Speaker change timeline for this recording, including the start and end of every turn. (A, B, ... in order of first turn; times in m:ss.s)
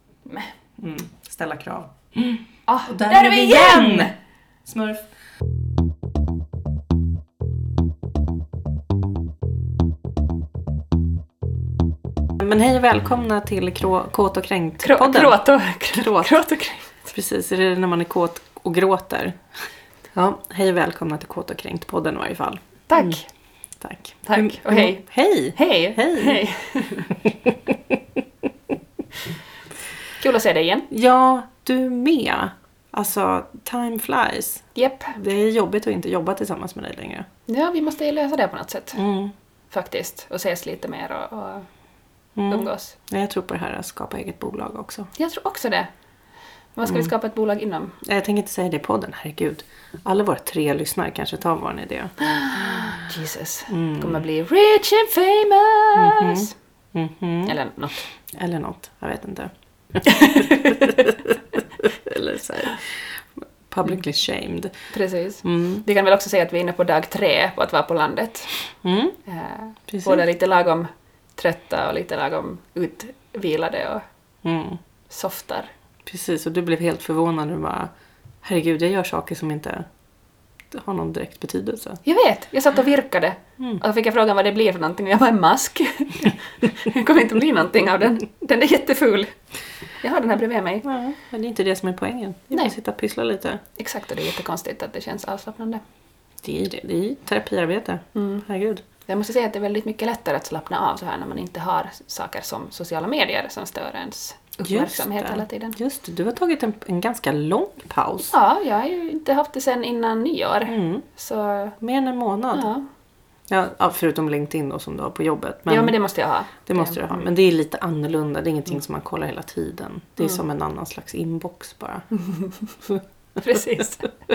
0:00.2-0:00.5 A
0:00.8-0:04.1 B
0:02.7-0:04.1 A
0:04.6-0:05.0 B
0:12.4-0:15.4 B
0:14.8-0:16.9 A
0:15.9-0:16.3 B
0:17.1-0:19.4 B
0:20.1-0:23.1 B
0:22.9-0:23.2 A
0:23.8-0:26.4 B
0:24.2-0:25.0 A
0:25.6-0:27.1 A
0:30.2-0:30.9 A
0:30.9-0:37.3 B
0:34.7-0:35.1 A
0:37.5-0:39.0 A
0:39.0-0:39.3 B
0:39.7-0:41.7 A
0:42.4-0:45.1 B
0:42.5-0:42.9 A
0:45.2-0:45.9 A
0:46.7-0:48.0 A
0:48.0-0:53.0 B
0:52.2-0:56.5 A
0:53.7-0:54.2 B
0:55.9-0:57.6 B
0:57.4-0:58.0 A
0:58.3-1:03.2 B
1:00.0-1:00.9 A
1:03.7-1:04.7 B
1:04.9-1:08.5 A
1:05.4-1:05.8 B
1:08.8-1:09.2 B
1:09.2-1:14.0 A
1:09.9-1:10.2 B
1:14.4-1:14.8 B
1:15.1-1:15.7 A
1:16.0-1:17.9 B
1:18.4-1:19.8 B
1:20.7-1:22.0 B
1:22.0-1:29.3 A
1:30.0-1:30.8 A
1:30.8-1:33.6 B
1:33.8-1:35.8 A
1:36.4-1:38.8 B
1:38.1-1:38.4 A
1:39.1-1:45.8 A
1:44.6-1:48.3 B
1:48.3-1:51.8 A
1:50.7-1:51.1 B
1:51.8-1:52.7 B
1:52.5-1:52.8 A
1:53.5-1:55.9 B
1:55.7-1:57.2 A
1:56.6-2:02.1 B
2:02.2-2:02.6 A
2:03.4-2:04.1 A